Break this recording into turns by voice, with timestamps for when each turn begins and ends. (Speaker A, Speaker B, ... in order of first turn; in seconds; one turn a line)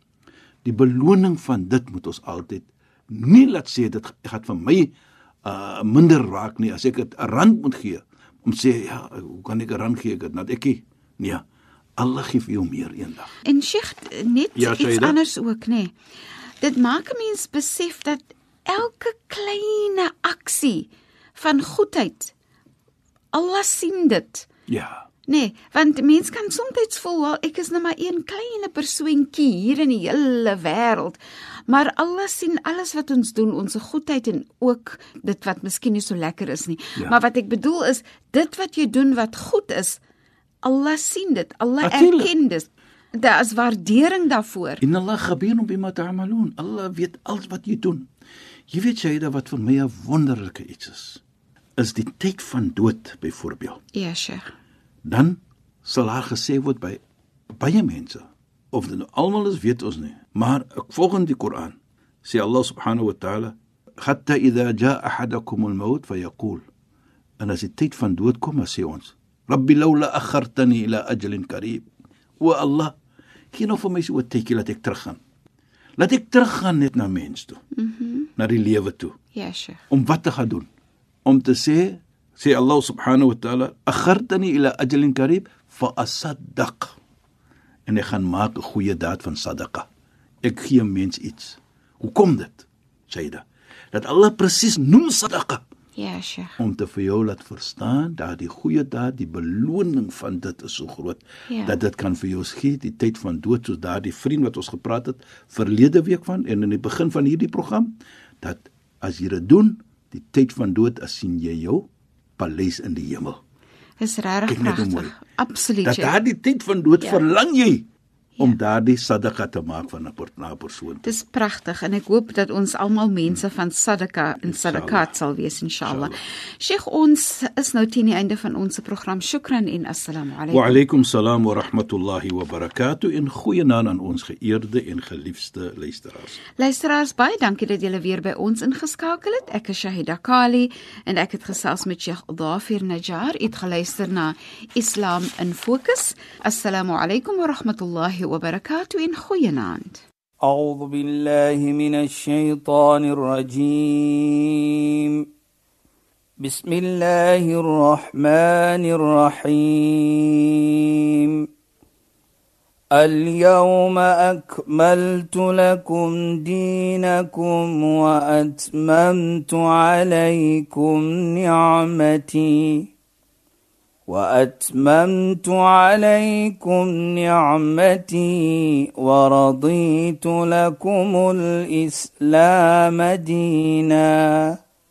Speaker A: 0.7-4.9
Speaker A: 5.5-11.4
Speaker A: 12.0-13.3
Speaker B: 13.4-15.9
Speaker A: 14.6-15.2
Speaker B: 16.6-22.3
Speaker B: 23.3-24.5
Speaker A: 24.7-25.1
Speaker B: 25.3-40.0
Speaker B: 40.6-44.8
Speaker A: 41.8-42.3
Speaker A: 44.8-48.1
Speaker A: 48.7-51.2
Speaker A: 51.8-53.8
Speaker B: 53.9-54.5
Speaker A: 55.0-57.0
Speaker A: 57.5-66.6
Speaker A: 67.4-71.9
Speaker A: 72.4-72.9
Speaker A: 73.5-75.2
Speaker A: 76.0-77.6
Speaker B: 77.8-78.3
Speaker A: 78.4-79.1
Speaker B: 79.3-79.8
Speaker A: 79.9-80.7
Speaker A: 81.3-87.0
Speaker A: 87.9-89.9
Speaker A: 90.4-95.6
Speaker B: 96.0-96.6
Speaker A: 96.6-113.4
Speaker B: 101.5-101.8
Speaker B: 114.0-116.2
Speaker A: 114.5-115.1
Speaker A: 115.8-117.8
Speaker A: 118.4-121.1
Speaker B: 121.0-130.8
Speaker A: 124.4-125.1
Speaker A: 125.8-126.1
Speaker A: 130.5-136.4
Speaker B: 136.6-150.0
Speaker C: 150.4-155.3
Speaker C: 156.4-161.5
Speaker C: 162.9-172.9
Speaker C: 174.1-184.6